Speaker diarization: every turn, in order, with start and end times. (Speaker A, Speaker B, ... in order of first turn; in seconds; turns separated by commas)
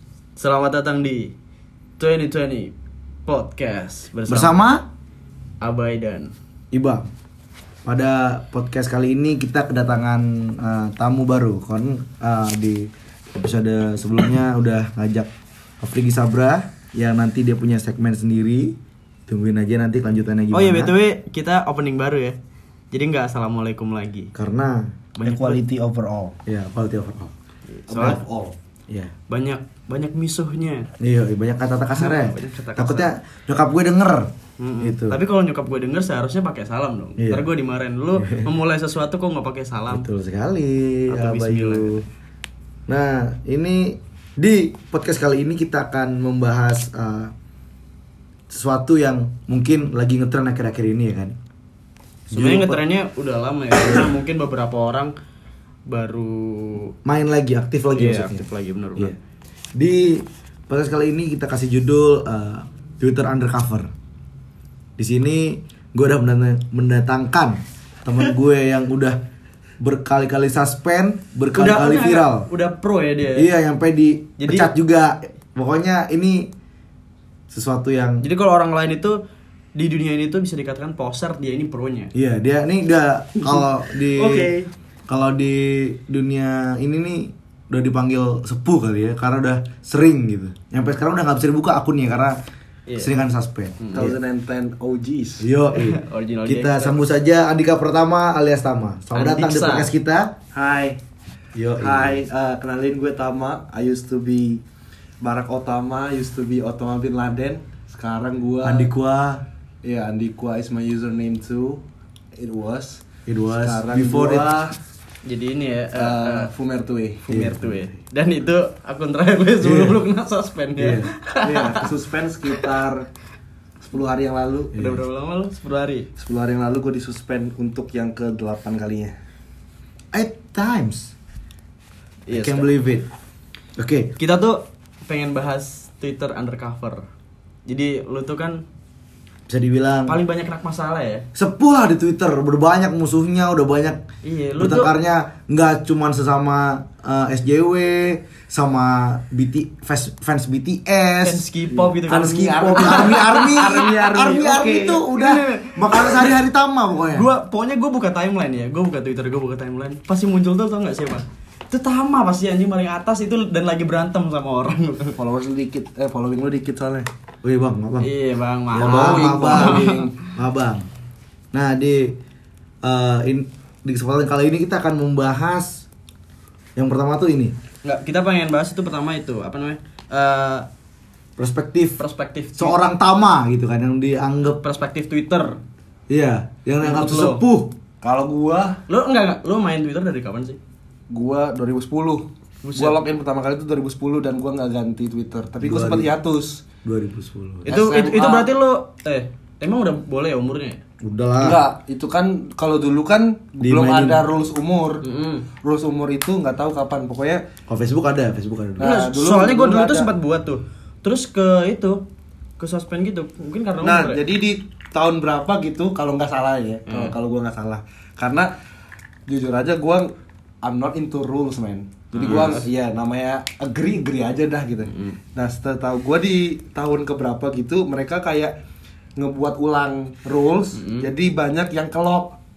Speaker A: 0.4-1.3, Speaker A: 2.0-2.7, Speaker A: 3.2-4.5, Speaker B: 4.3-4.8, Speaker A: 5.6-6.3, Speaker B: 6.7-7.1, Speaker B: 7.8-15.3, Speaker B: 15.8-18.8, Speaker B: 19.3-20.9, Speaker A: 20.5-22.4, Speaker A: 22.9-24.3, Speaker B: 24.3-25.0, Speaker A: 25.1-25.6, Speaker C: 25.2-26.4, Speaker B: 26.4-27.3, Speaker A: 27.7-28.2, Speaker C: 27.9-28.6, Speaker A: 29.3-30.9, Speaker B: 31.0-35.2, Speaker A: 31.9-33.1, Speaker A: 34.6-40.0, Speaker B: 37.2-37.5, Speaker B: 38.1-38.5, Speaker B: 39.9-42.0, Speaker A: 41.1-42.0, Speaker B: 42.9-47.3, Speaker B: 48.5-51.4, Speaker B: 52.3-52.8, Speaker A: 52.3-55.1, Speaker A: 55.9-56.9, Speaker B: 57.0-59.1, Speaker A: 57.9-59.1, Speaker B: 59.7-63.9, Speaker B: 65.0-69.2, Speaker B: 69.8-72.5, Speaker A: 71.5-73.5, Speaker B: 73.3-76.5, Speaker A: 74.4-74.7, Speaker B: 77.5-78.2, Speaker A: 78.2-79.2, Speaker A: 79.8-82.1, Speaker B: 82.1-84.5, Speaker A: 83.4-84.7, Speaker B: 85.1-92.4, Speaker A: 92.9-93.1, Speaker B: 93.0-94.2, Speaker A: 93.8-94.1, Speaker C: 93.9-95.5, Speaker B: 95.4-100.3, Speaker A: 95.7-97.0, Speaker A: 99.1-99.9, Speaker C: 100.5-101.0, Speaker B: 101.5-102.2, Speaker C: 101.8-104.6, Speaker C: 105.2-108.9, Speaker B: 108.6-109.4, Speaker C: 109.8-111.8, Speaker C: 112.4-114.7, Speaker B: 113.3-114.5, Speaker A: 115.2-116.5, Speaker C: 116.0-117.5, Speaker A: 117.3-121.9, Speaker B: 117.3-117.9, Speaker B: 119.6-120.0, Speaker B: 120.8-121.1, Speaker C: 121.4-123.0, Speaker C: 123.8-124.8, Speaker A: 124.7-126.1, Speaker B: 124.8-125.0, Speaker C: 126.2-129.1, Speaker B: 130.1-131.1, Speaker A: 132.3-132.7, Speaker B: 132.3-133.1, Speaker B: 133.8-134.1, Speaker A: 134.2-137.0, Speaker A: 137.7-138.6, Speaker B: 139.5-140.1, Speaker A: 140.1-141.2, Speaker B: 141.3-144.0, Speaker A: 144.2-144.9, Speaker B: 144.6-151.4, Speaker A: 151.2-154.2, Speaker C: 151.7-155.0, Speaker B: 152.1-157.2, Speaker A: 155.0-156.3, Speaker A: 157.1-165.2, Speaker C: 165.2-167.1, Speaker B: 167.4-168.1, Speaker A: 168.0-170.1, Speaker B: 168.7-170.9, Speaker C: 168.8-170.2, Speaker B: 171.5-172.2, Speaker B: 172.8-175.8, Speaker B: 176.8-177.5, Speaker A: 177.8-180.7, Speaker B: 181.4-182.0, Speaker A: 182.0-182.8, Speaker B: 182.6-184.6, Speaker A: 184.6-185.6, Speaker B: 186.1-187.7, Speaker A: 186.8-187.4, Speaker C: 188.0-188.8, Speaker A: 188.9-190.6, Speaker C: 191.1-196.6, Speaker A: 192.6-193.0, Speaker B: 195.6-196.1, Speaker B: 196.8-197.7, Speaker C: 197.7-198.5, Speaker A: 197.7-200.8, Speaker B: 201.0-201.6, Speaker C: 201.4-205.0, Speaker B: 203.6-204.2, Speaker A: 205.0-205.4, Speaker C: 205.6-207.4, Speaker B: 207.7-208.9, Speaker C: 208.8-210.1, Speaker A: 208.8-212.0, Speaker A: 212.6-214.2, Speaker C: 213.8-218.5, Speaker A: 216.9-217.1, Speaker C: 219.3-220.1, Speaker C: 220.6-228.5, Speaker A: 222.1-222.7, Speaker A: 224.9-225.2, Speaker C: 229.2-232.4, Speaker A: 230.8-231.1